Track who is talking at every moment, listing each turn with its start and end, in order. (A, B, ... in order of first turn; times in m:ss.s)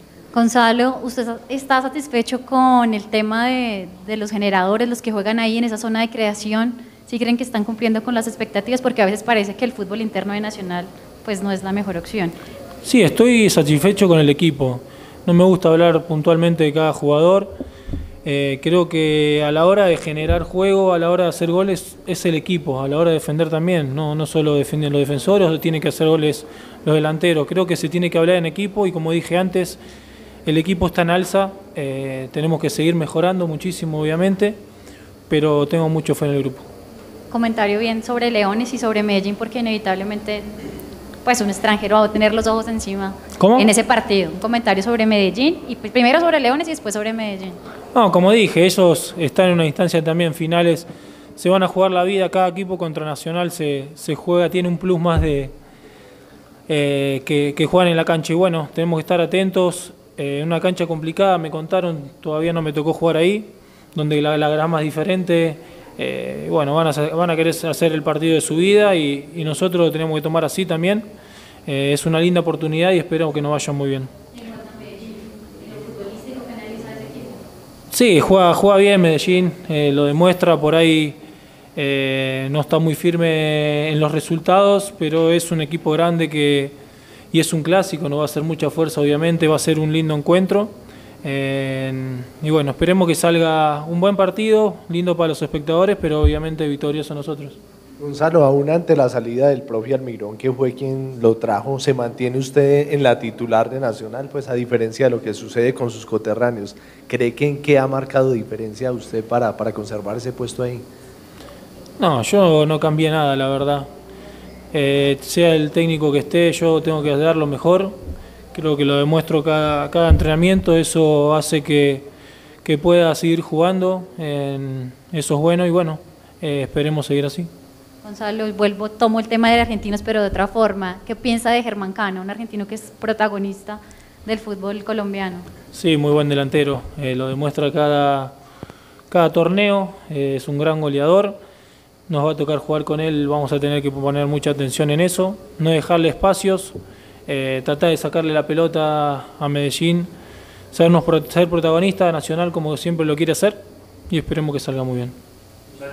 0:00.3-0:12.4 A
0:12.8-0:17.5 B
0:18.2-0:29.8 B
0:30.4-0:34.6 B
0:35.3-0:36.6 B
0:37.3-0:40.4 A
0:41.2-0:47.6 A
0:43.4-0:43.7 B
0:47.9-0:55.5 B
0:56.7-1:11.1 B
1:11.6-1:14.1 B
1:14.3-1:17.4 A
1:17.9-1:21.2 B
1:21.8-1:26.7 B
1:27.3-1:37.6 B
1:38.0-1:50.8 C
1:52.0-1:53.9 B
1:54.7-1:58.0 B
1:58.5-2:02.0 B
2:02.6-2:07.5 B
2:08.0-2:15.4 A
2:15.7-2:18.3 B
2:19.1-2:21.4 B
2:22.1-2:30.1 B
2:30.7-2:35.2 B